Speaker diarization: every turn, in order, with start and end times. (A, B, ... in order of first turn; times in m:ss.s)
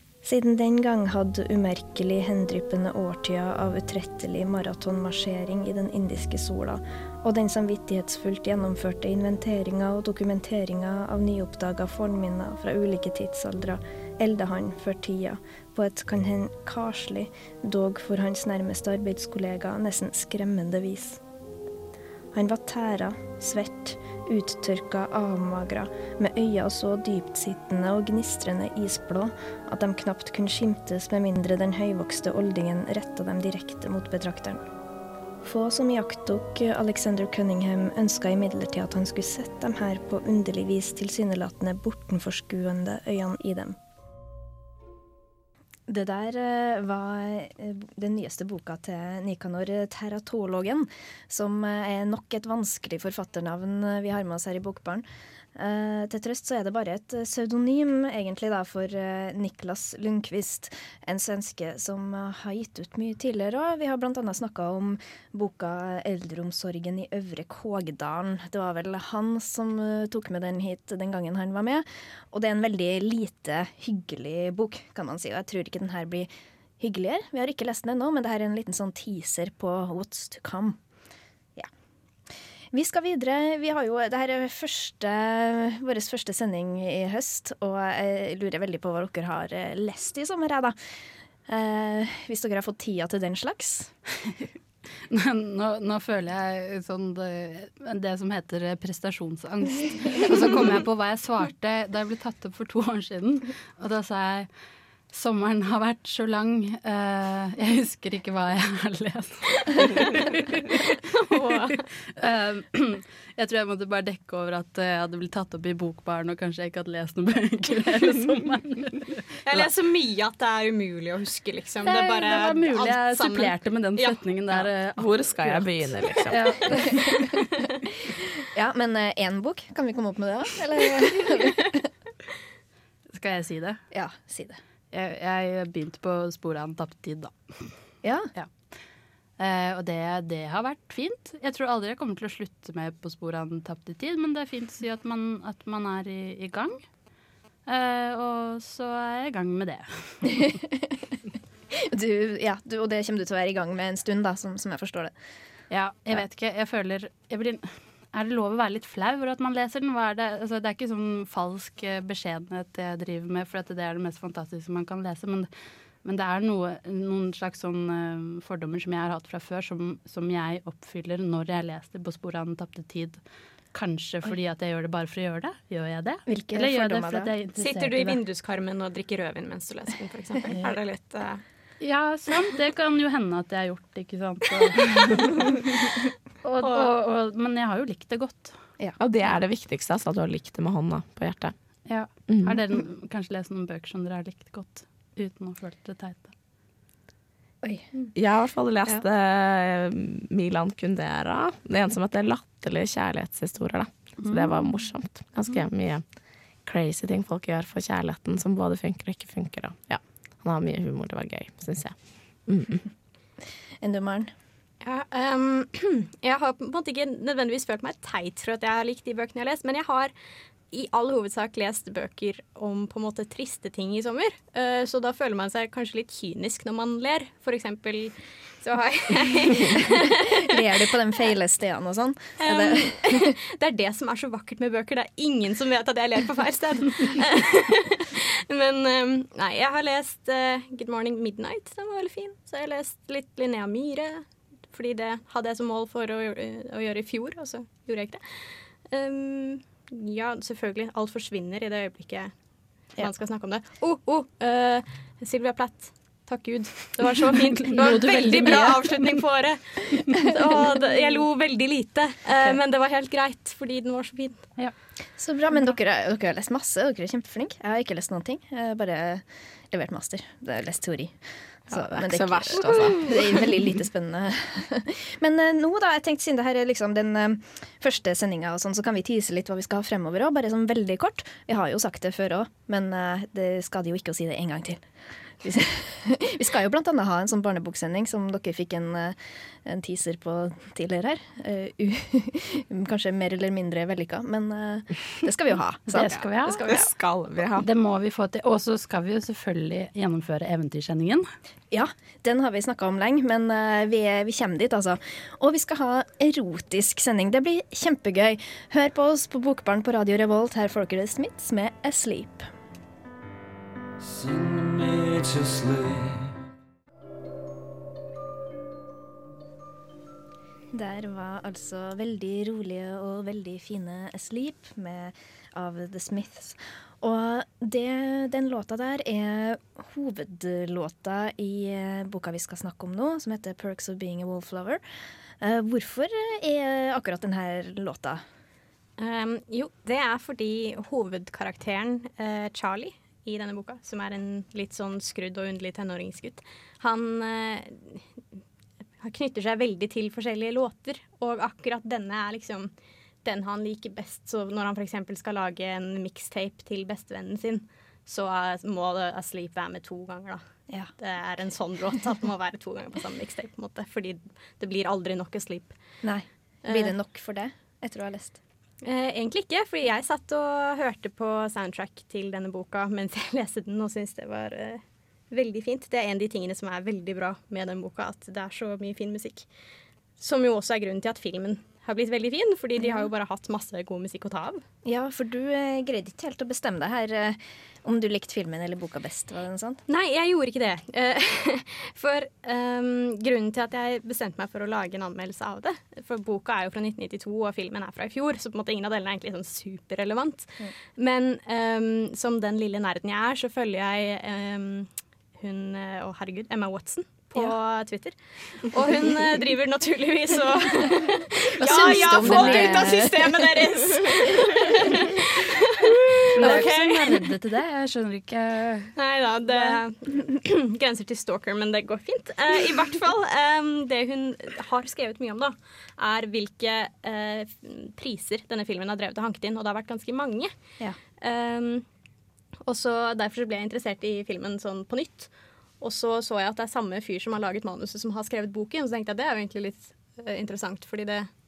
0:00.2-0:21.2 A
0:22.3-0:34.6 A
0:35.4-0:43.8 A
0:45.9-1:20.8 A
1:22.7-1:30.8 A
1:31.5-1:33.9 A
1:35.1-1:44.5 B
1:45.1-1:51.6 B
1:51.2-1:51.8 C
1:52.2-1:59.2 B
1:59.4-2:04.2 C
2:01.8-2:07.4 B
2:05.0-2:06.4 D
2:06.7-2:07.2 A
2:08.1-2:11.9 A
2:13.1-2:13.8 B
2:13.9-2:14.6 A
2:14.9-2:17.7 B
2:18.0-2:18.3 A
2:19.4-2:26.8 B
2:27.7-2:30.5 B
2:30.3-2:31.1 A
2:31.7-2:35.1 A
2:35.7-2:45.5 B
2:46.0-2:53.2 B
2:53.7-2:58.2 B
2:56.3-2:57.3 A
2:57.6-3:01.4 C
3:01.8-3:05.7 B
3:06.4-3:08.6 B
3:06.6-3:06.9 C
3:09.0-3:11.5 D
3:11.8-3:16.3 B
3:12.3-3:12.6 D
3:17.6-3:17.9 A
3:18.1-3:26.0 D
3:24.2-3:24.7 B
3:26.6-3:32.8 D
3:33.8-3:34.3 A
3:34.8-3:40.1 C
3:40.7-3:50.6 C
3:50.4-3:53.4 A
3:52.4-4:12.3 C
4:12.9-4:24.5 C
4:17.2-4:19.2 B
4:25.2-4:31.2 A
4:31.7-4:44.8 A
4:31.7-4:33.1 D
4:45.4-4:56.8 A
4:55.9-4:56.8 B
4:56.0-4:57.7 D
4:57.6-5:01.3 B
5:01.7-5:12.5 A
5:14.0-5:16.3 E
5:20.7-5:34.8 A
5:35.4-5:38.2 A
5:39.0-5:48.0 C
5:49.0-5:52.7 C
5:53.2-6:00.4 C
6:01.0-6:05.8 C
6:06.0-6:08.4 A
6:06.6-6:06.9 C
6:08.8-6:19.4 C
6:20.2-6:24.6 C
6:22.8-6:23.1 A
6:24.8-6:29.8 A
6:29.9-6:57.2 C
6:51.6-6:54.2 A
6:52.2-6:52.7 B
6:56.4-6:58.9 B
6:56.4-6:56.7 A
6:59.0-7:10.5 C
7:11.2-7:11.8 C
7:12.6-7:21.3 C